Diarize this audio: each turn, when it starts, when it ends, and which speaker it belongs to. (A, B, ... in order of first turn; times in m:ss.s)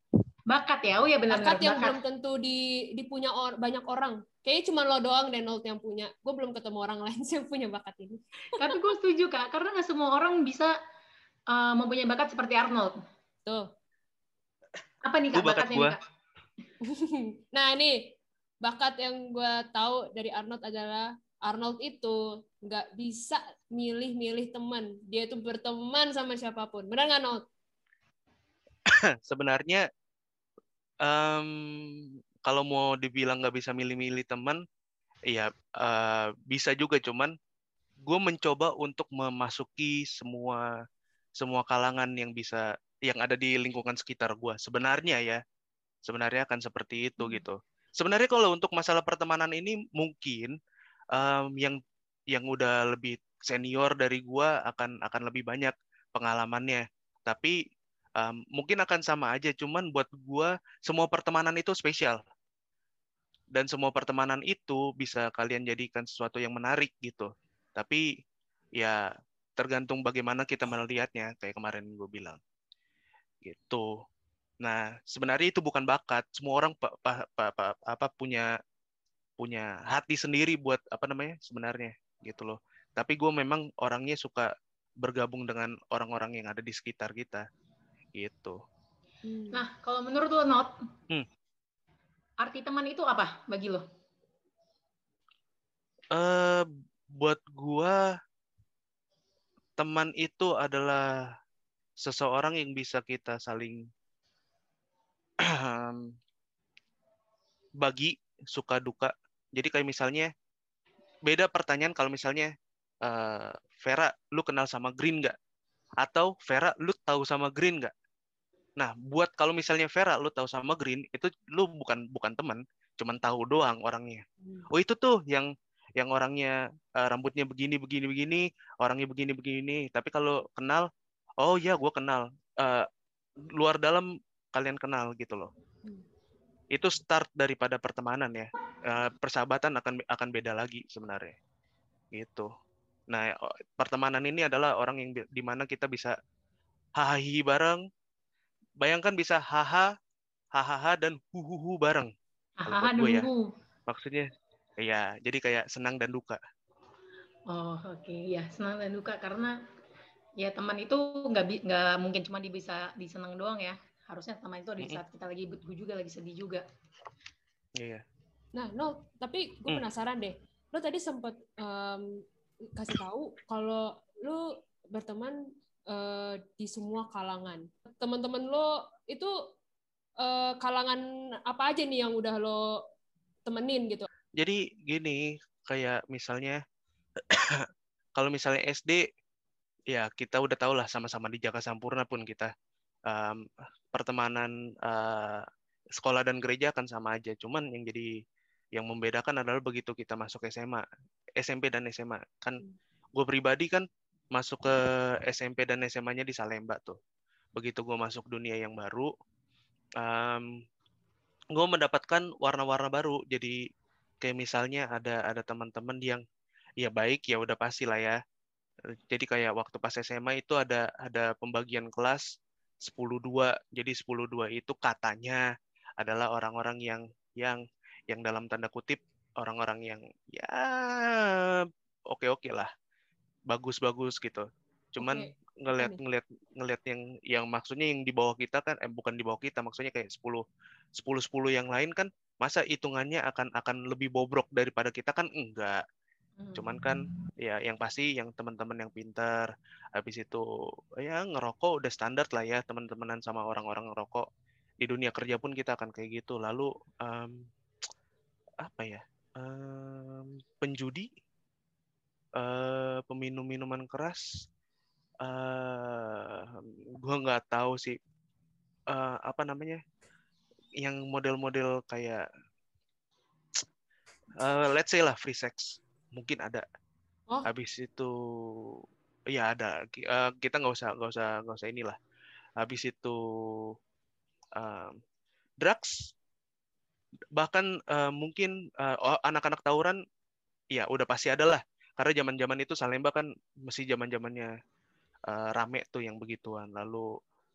0:00.5-0:02.0 A
0:01.3-0:08.9 B
0:08.6-0:10.7 A
0:11.5-0:12.9 A
0:15.0-0:16.0 A
0:15.3-0:16.0 C
0:16.8-0:18.1 B
0:18.6-0:27.4 B
0:29.2-0:29.9 C
0:31.0-0:34.6 C
0:35.3-0:37.3 C
0:38.1-0:40.6 C
0:41.4-0:45.4 C
0:46.1-0:50.5 C
0:47.2-0:47.4 B
0:51.1-0:51.8 C
0:52.3-0:57.6 C
0:58.2-1:02.2 C
1:03.5-1:08.0 C
1:09.6-1:12.4 C
1:13.4-1:13.9 C
1:14.6-1:18.5 C
1:19.4-1:24.5 C
1:25.0-1:27.4 C
1:28.2-1:28.6 C
1:29.2-1:29.6 B
1:29.5-1:30.7 A
1:32.4-1:33.8 A
1:36.1-1:36.7 C
1:37.2-1:38.0 C
1:39.8-1:41.0 C
1:42.0-1:43.8 C
1:45.5-1:46.1 C
1:47.8-1:50.3 C
1:51.3-1:52.5 C
1:53.0-1:55.4 C
1:56.0-1:57.9 C
1:58.8-2:10.9 C
2:04.4-2:04.7 B
2:11.4-2:12.9 C
2:13.6-2:15.5 C
2:16.7-2:21.4 C
2:22.2-2:22.5 C
2:23.1-2:26.1 C
2:27.0-2:27.8 C
2:28.8-2:29.9 C
2:30.6-2:32.1 C
2:32.6-2:33.5 A
2:32.7-2:33.3 C
2:33.9-2:34.3 C
2:34.8-2:36.4 C
2:37.5-2:39.6 A
2:40.4-2:46.6 A
2:48.6-2:52.2 B
2:52.8-2:55.4 B
2:55.9-2:59.3 B
3:00.2-3:02.6 B
3:03.5-3:04.1 B
3:04.4-3:06.6 C
3:07.3-3:07.6 C
3:08.2-3:09.0 C
3:09.9-3:12.5 C
3:13.1-3:15.5 C
3:16.0-3:18.1 C
3:18.8-3:20.8 C
3:21.4-3:22.6 C
3:23.2-3:27.0 C
3:27.6-3:29.1 C
3:30.0-3:30.5 C
3:31.6-3:33.6 C
3:34.2-3:36.2 C
3:36.8-3:38.2 C
3:39.1-3:42.2 C
3:42.8-3:45.4 C
3:46.0-3:52.7 C
3:53.5-4:00.4 C
3:55.0-3:56.0 B
4:01.0-4:05.8 C
4:06.4-4:06.7 A
4:06.6-4:10.4 C
4:11.0-4:14.3 C
4:14.8-4:17.5 C
4:18.6-4:21.1 C
4:22.4-4:24.2 C
4:25.2-4:28.0 C
4:28.9-4:29.8 C
4:30.8-4:32.2 C
4:34.4-4:36.6 C
4:37.4-4:38.8 C
4:39.3-4:42.0 C
4:42.6-4:43.7 C
4:44.6-4:45.0 C
4:45.6-4:46.1 C
4:47.4-4:50.0 C
4:50.7-4:54.5 C
4:55.3-4:57.0 C